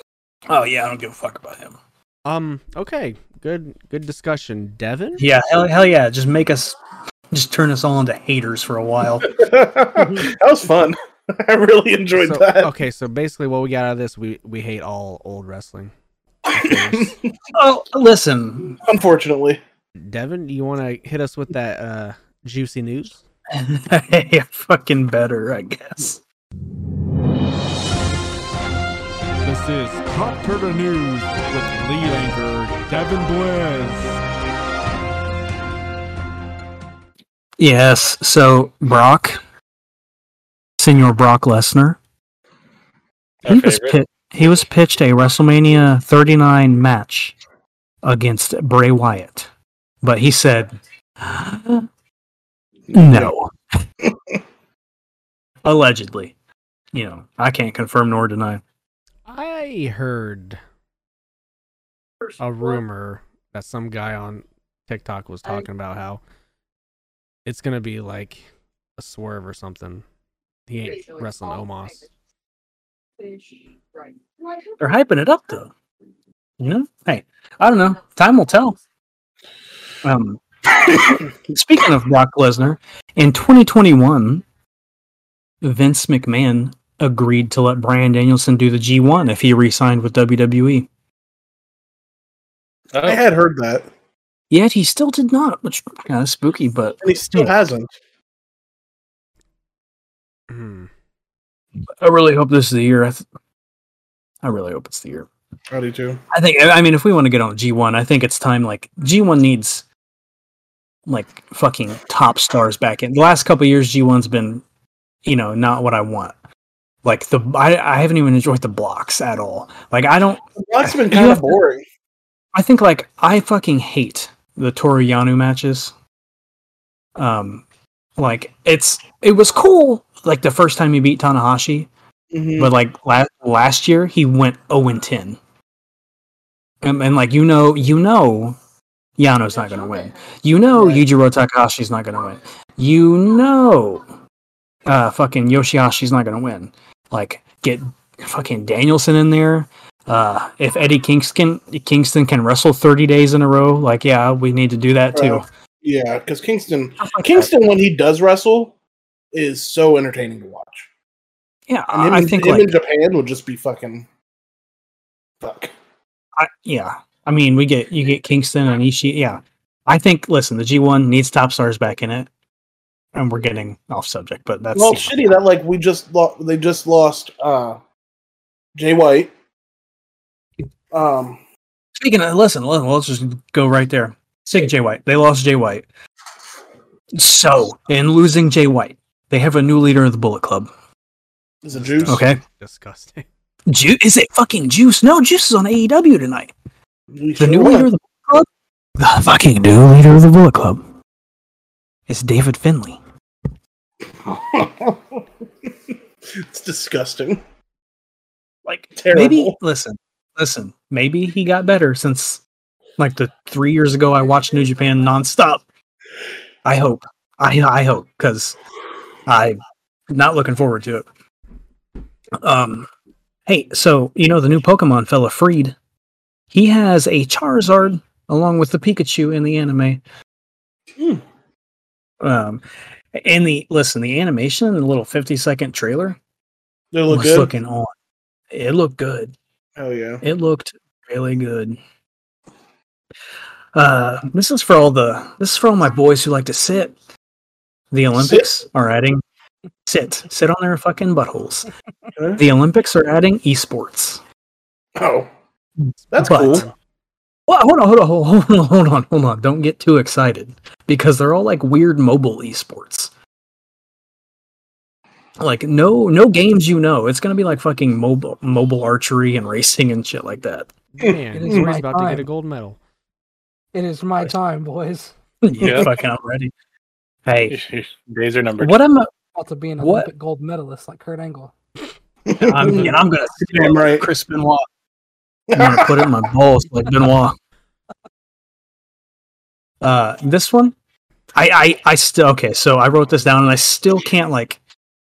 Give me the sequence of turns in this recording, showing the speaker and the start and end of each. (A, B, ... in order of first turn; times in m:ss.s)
0:00.5-0:01.8 A
0:02.2-0:05.2 B
0:05.2-0:06.8 A
0:07.3-0:09.4 A
0:09.3-0:12.7 C
0:12.2-0:15.9 B
0:16.5-0:17.2 B
0:16.5-0:17.1 C
0:17.5-0:18.8 A
0:18.8-0:19.6 C
0:20.0-0:23.2 B
0:23.5-0:26.2 A
0:29.4-0:30.0 B
0:30.0-0:32.3 D
0:31.6-0:33.2 B
0:32.9-0:34.0 D
0:37.6-0:39.4 A
0:40.8-0:42.0 A
0:43.4-0:44.0 E
0:43.5-0:47.4 A
0:48.0-0:49.5 A
0:50.0-0:51.8 A
0:52.9-0:53.3 C
0:52.9-0:53.5 A
0:55.6-0:56.3 A
0:56.9-0:58.6 A
0:59.3-1:00.6 B
1:02.4-1:06.2 B
1:07.4-1:10.0 B
1:10.7-1:12.1 B
1:14.8-1:15.7 A
1:16.6-1:18.8 A
1:20.0-1:24.4 A
1:25.6-1:30.9 A
1:32.9-1:33.2 E
1:33.0-1:33.9 C
1:34.5-1:37.5 A
1:37.0-1:37.9 C
1:40.5-1:40.9 B
1:42.0-1:43.2 A
1:44.4-1:45.3 A
1:45.7-1:46.2 C
1:46.3-1:49.8 A
1:51.1-1:54.6 A
1:55.2-1:56.3 A
1:57.0-2:01.6 A
2:00.6-2:01.8 C
2:02.5-2:05.9 A
2:07.2-2:07.6 A
2:08.2-2:11.9 A
2:12.3-2:12.7 C
2:12.6-2:15.4 A
2:16.8-2:18.6 A
2:19.2-2:24.0 A
2:20.7-2:21.0 C
2:24.8-2:35.4 A
2:35.1-2:38.7 C
2:37.0-2:37.5 A
2:39.3-2:40.9 C
2:41.7-2:42.7 A
2:41.9-2:44.0 C
2:45.4-2:45.7 C
2:46.4-2:52.3 A
2:53.1-2:55.2 A
2:54.7-2:57.8 C
2:58.8-2:59.3 C
3:00.9-3:01.4 C
3:02.0-3:05.8 A
3:07.1-3:10.7 A
3:11.6-3:12.2 C
3:11.7-3:13.3 B
3:12.1-3:12.4 A
3:13.7-3:16.5 A
3:17.1-3:17.9 C
3:17.4-3:20.8 A
3:22.1-3:23.0 A
3:24.2-3:25.2 C
3:26.4-3:27.4 C
3:28.6-3:32.4 A
3:29.0-3:29.6 C
3:33.0-3:35.6 A
3:36.6-3:38.6 A
3:39.3-3:39.6 A
3:40.1-3:41.1 A
3:42.4-3:42.9 A
3:43.5-3:45.7 A
3:46.5-3:50.0 A
3:52.2-3:52.6 A
3:53.1-3:56.2 A
3:56.9-3:57.5 C
3:57.1-3:57.9 A
3:58.5-3:59.3 A
3:59.8-4:00.2 C
4:00.2-4:01.8 A
4:03.7-4:06.9 A
4:07.9-4:09.2 A
4:08.2-4:08.5 C
4:09.8-4:11.7 A
4:12.2-4:12.4 C
4:12.4-4:14.2 A
4:15.0-4:15.3 C
4:15.8-4:16.7 A
4:16.1-4:16.7 C
4:17.5-4:23.1 A
4:25.4-4:30.7 A
4:30.9-4:32.8 B
4:31.0-4:31.6 C
4:31.3-4:32.3 F
4:33.7-4:35.1 F
4:35.4-4:36.5 A
4:35.6-4:35.9 E
4:37.2-4:37.5 A
4:37.5-4:38.8 E
4:38.6-4:39.1 A
4:39.3-4:41.5 F
4:39.8-4:40.1 A
4:42.2-4:44.1 C
4:42.4-4:44.7 A
4:45.5-4:46.1 C
4:45.5-4:47.4 A
4:49.8-4:50.7 A
4:51.3-4:54.6 A